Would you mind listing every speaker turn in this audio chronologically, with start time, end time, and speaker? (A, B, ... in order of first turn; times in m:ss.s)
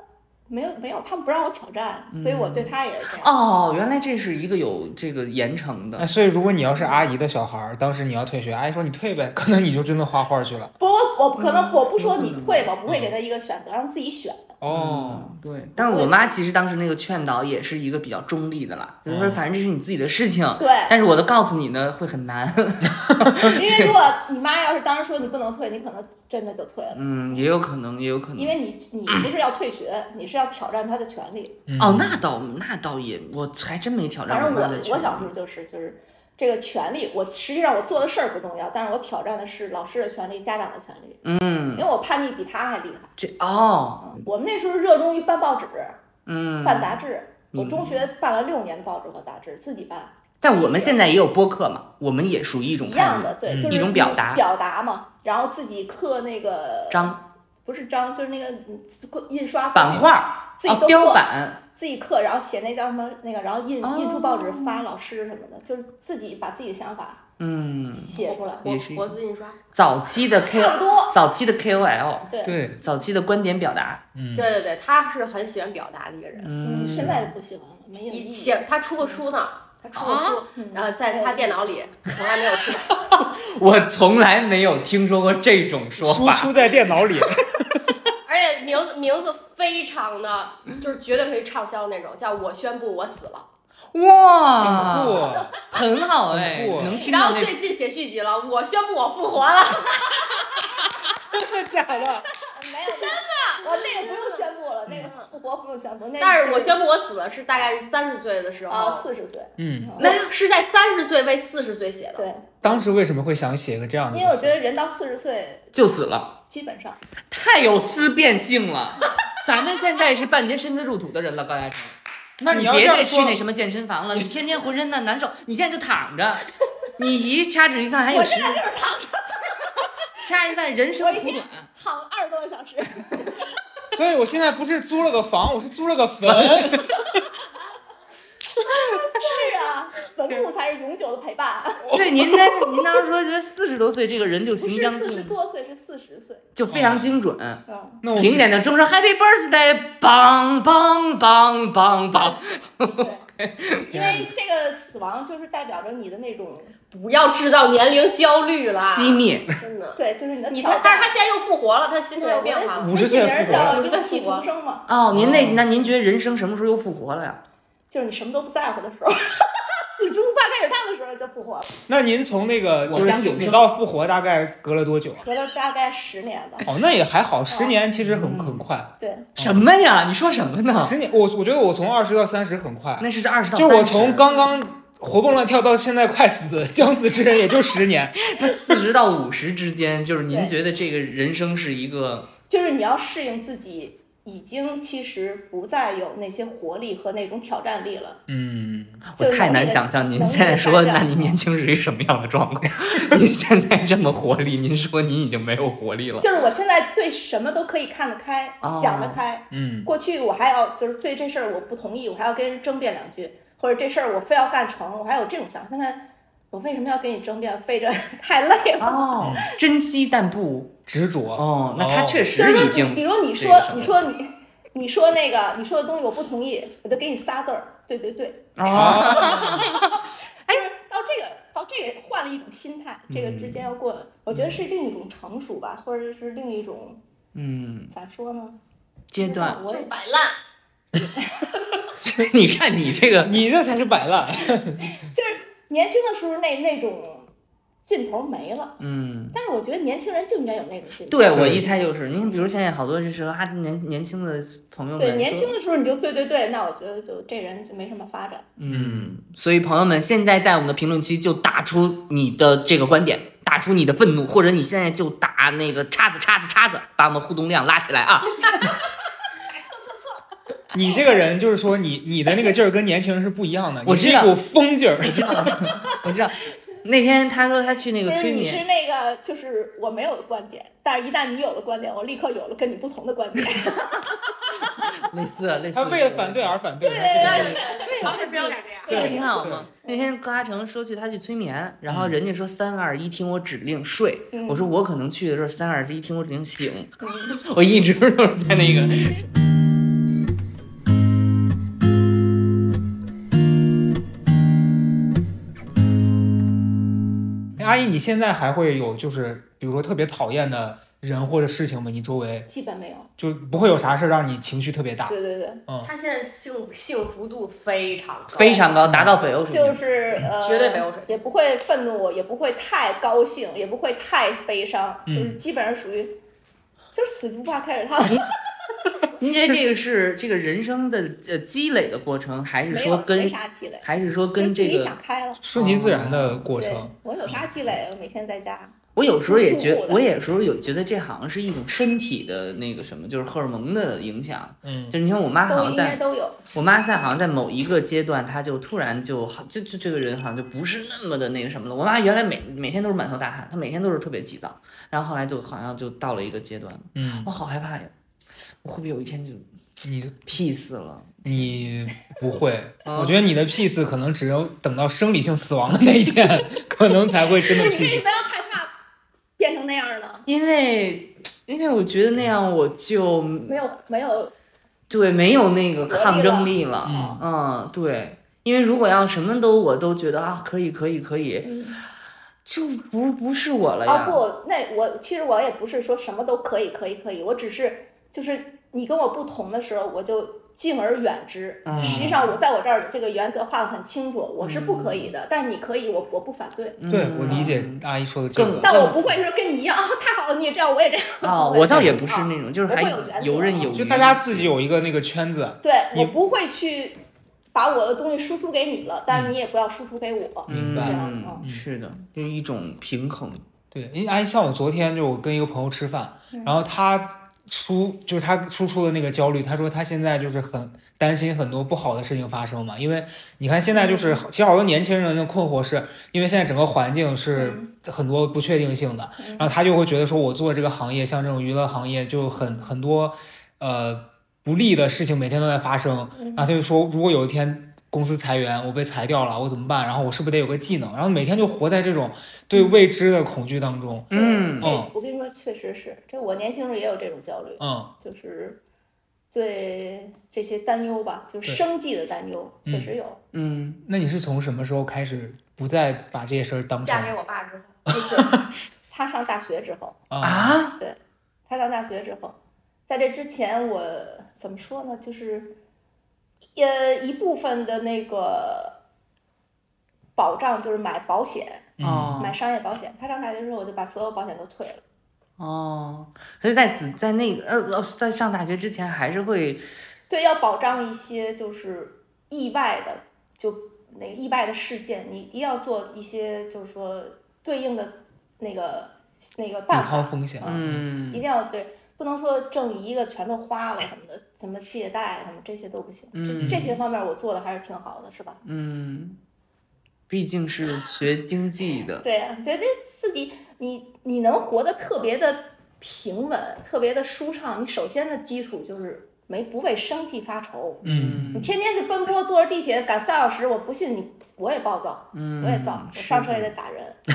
0:00.5-0:03.3 A
0:02.1-0:06.1 B
0:06.0-0:10.7 C
0:06.8-0:07.1 A
0:10.8-0:14.6 A
0:11.4-0:12.7 B
0:12.9-0:13.1 C
0:14.6-0:15.3 C
0:14.7-0:23.9 B
0:15.8-0:16.4 A
0:19.1-0:19.4 C
0:20.6-0:20.9 A
0:23.4-0:27.5 A
0:26.9-0:29.3 B
0:28.4-0:31.6 A
0:31.7-0:32.2 C
0:31.8-0:35.3 B
0:34.3-0:43.1 A
0:41.2-0:41.9 B
0:43.2-0:44.2 B
0:44.0-0:46.0 A
0:46.3-0:47.0 B
0:46.6-0:51.0 A
0:47.5-0:48.1 B
0:50.4-0:54.4 B
0:52.8-1:07.2 A
0:53.5-0:53.8 C
0:56.9-0:57.2 B
0:59.8-1:01.6 B
1:03.8-1:04.9 B
1:07.4-1:09.2 B
1:07.9-1:08.7 A
1:08.2-1:09.6 D
1:09.7-1:14.0 B
1:10.5-1:11.2 A
1:12.3-1:12.6 A
1:12.4-1:12.8 C
1:14.2-1:14.5 C
1:14.4-1:16.5 D
1:16.4-1:17.3 B
1:16.6-1:19.1 A
1:16.9-1:17.2 C
1:18.1-1:23.2 D
1:20.0-1:20.4 B
1:20.5-1:21.7 A
1:23.1-1:26.6 B
1:26.0-1:28.0 C
1:28.2-1:33.5 D
1:33.9-1:37.6 B
1:34.6-1:35.6 C
1:35.2-1:35.5 A
1:36.3-1:37.0 C
1:37.0-1:40.9 D
1:41.2-1:42.3 C
1:42.5-1:46.8 A
1:42.9-1:45.3 D
1:46.2-1:49.1 D
1:48.7-1:50.2 A
1:49.6-1:50.0 C
1:50.0-1:50.3 B
1:50.0-1:52.3 D
1:52.2-1:52.9 A
1:52.6-1:54.6 C
1:54.1-1:55.8 A
1:55.7-1:56.4 B
1:56.5-1:57.0 A
1:57.3-2:08.6 B
2:02.4-2:03.4 C
2:08.1-2:09.8 A
2:10.2-2:11.7 B
2:11.0-2:13.4 A
2:13.9-2:17.2 C
2:16.3-2:16.8 B
2:18.7-2:22.3 A
2:21.9-2:22.4 C
2:21.9-2:25.3 B
2:24.6-2:26.5 A
2:26.6-2:34.1 B
2:26.7-2:27.2 C
2:27.7-2:28.0 A
2:28.0-2:28.7 C
2:32.1-2:33.2 A
2:33.9-2:36.8 A
2:33.9-2:34.3 C
2:36.9-2:40.0 D
2:38.8-2:39.5 B
2:40.0-2:41.2 A
2:40.5-2:44.5 D
2:42.2-2:44.9 A
2:42.8-2:43.8 C
2:44.9-2:47.4 B
2:45.1-2:45.7 C
2:47.9-2:51.7 A
2:51.9-2:55.2 C
2:52.9-2:53.6 B
2:55.2-2:56.7 A
2:56.6-2:59.6 C
2:57.5-2:57.8 A
2:58.0-2:58.7 B
2:59.0-2:59.3 A
2:59.4-3:01.0 B
3:00.8-3:08.8 C
3:03.0-3:04.3 B
3:08.2-3:12.3 B
3:12.5-3:18.2 A
3:18.3-3:19.0 C
3:19.1-3:26.3 B
3:19.2-3:21.4 A
3:26.2-3:39.2 A
3:28.6-3:29.2 B
3:29.5-3:29.9 C
3:38.8-3:40.7 B
3:39.2-3:39.5 C
3:40.9-3:42.3 C
3:41.4-3:44.0 B
3:42.4-3:57.0 A
3:48.6-3:50.6 B
3:48.7-3:49.7 C
3:53.1-3:53.6 B
3:57.3-3:57.9 B
3:57.9-3:58.6 A
3:59.1-3:59.6 B
3:59.2-3:59.9 A
3:59.5-4:00.4 D
4:01.9-4:03.4 B
4:03.2-4:05.0 C
4:04.9-4:07.3 A
4:07.9-4:08.8 A
4:08.8-4:09.4 B
4:09.3-4:11.4 A
4:11.1-4:15.5 B
4:11.3-4:11.7 C
4:15.0-4:18.5 A
4:18.6-4:28.7 B
4:18.7-4:19.1 C
4:28.5-4:28.7 A
4:29.5-4:30.2 A
4:30.7-4:35.6 C
4:30.8-4:31.2 A
4:33.8-4:34.4 B
4:35.0-4:38.6 B
4:38.1-4:44.2 A
4:44.7-4:46.6 B
4:45.7-4:47.6 C
4:46.8-4:50.1 A
4:47.1-4:48.3 B
4:47.1-4:49.2 D
4:48.9-4:59.2 B
4:48.9-4:49.7 C
4:51.9-4:52.2 C
4:54.3-4:54.8 A
4:57.0-4:57.4 A
5:07.6-5:12.5 C
5:12.5-5:13.1 A
5:13.2-5:15.2 C
5:15.1-5:15.6 A
5:15.8-5:18.7 D
5:18.3-5:19.8 B
5:18.8-5:19.2 C
5:19.5-5:26.2 A
5:20.4-5:21.2 D
5:25.1-5:25.4 C
5:26.9-5:28.3 A
5:29.2-5:35.0 B
5:32.7-5:35.4 A
5:35.4-5:37.5 C
5:35.6-5:36.5 B
5:36.5-5:38.8 A
5:39.0-5:46.0 B
5:39.3-5:40.0 A
5:44.6-5:45.0 C
5:45.5-5:46.4 A
5:46.5-5:57.9 B
5:57.0-5:57.3 C
5:58.6-5:59.5 B
5:59.8-6:00.2 C
6:00.3-6:01.5 B
6:01.2-6:08.0 C
6:02.8-6:03.2 B
6:07.4-6:08.7 A
6:09.4-6:10.3 A
6:10.3-6:13.6 B
6:13.5-6:14.3 A
6:14.9-6:21.5 B
6:15.8-6:17.2 A
6:16.8-6:17.2 C
6:21.4-6:21.8 A
6:22.4-6:24.2 B
6:23.9-6:37.5 A
6:31.6-6:32.2 B
6:31.7-6:32.2 C
6:34.4-6:35.1 B
6:36.8-6:39.0 B
6:36.9-6:38.8 C
6:38.6-6:43.9 A
6:41.2-6:44.5 B
6:41.7-6:42.0 C
6:43.7-6:46.2 C
6:45.6-6:47.0 A
6:47.5-6:51.4 A
6:50.5-6:53.4 B
6:50.5-6:51.6 C
6:53.7-7:24.9 C
6:56.3-6:56.6 A
7:03.7-7:04.2 A
7:07.3-7:07.7 A
7:09.2-7:09.5 A
7:12.4-7:12.7 A
7:16.2-7:16.5 A
7:22.5-7:22.8 A
7:24.1-7:24.7 B
7:24.1-7:28.6 A
7:27.6-7:27.9 C
7:29.3-7:33.2 A
7:32.7-7:32.9 C
7:33.3-7:33.8 B
7:33.8-7:37.1 C
7:36.8-7:38.3 D
7:37.9-7:38.5 C
7:37.9-7:38.3 A
7:38.9-7:40.1 A
7:40.1-7:40.6 C
7:40.2-7:40.8 B
7:40.8-7:45.6 A
7:46.6-7:48.8 A
7:50.2-7:54.8 A
7:51.8-7:52.2 C
7:51.8-7:52.4 B
7:55.4-7:59.6 B
8:00.1-8:18.4 A
8:09.7-8:10.8 C
8:10.4-8:11.2 B
8:16.2-8:16.8 B
8:16.4-8:16.7 C
8:18.4-8:19.2 B
8:20.1-8:22.0 B
8:22.0-8:30.8 A
8:30.8-8:31.5 B
8:30.8-8:31.3 C
8:31.4-8:37.0 A
8:35.1-8:36.5 B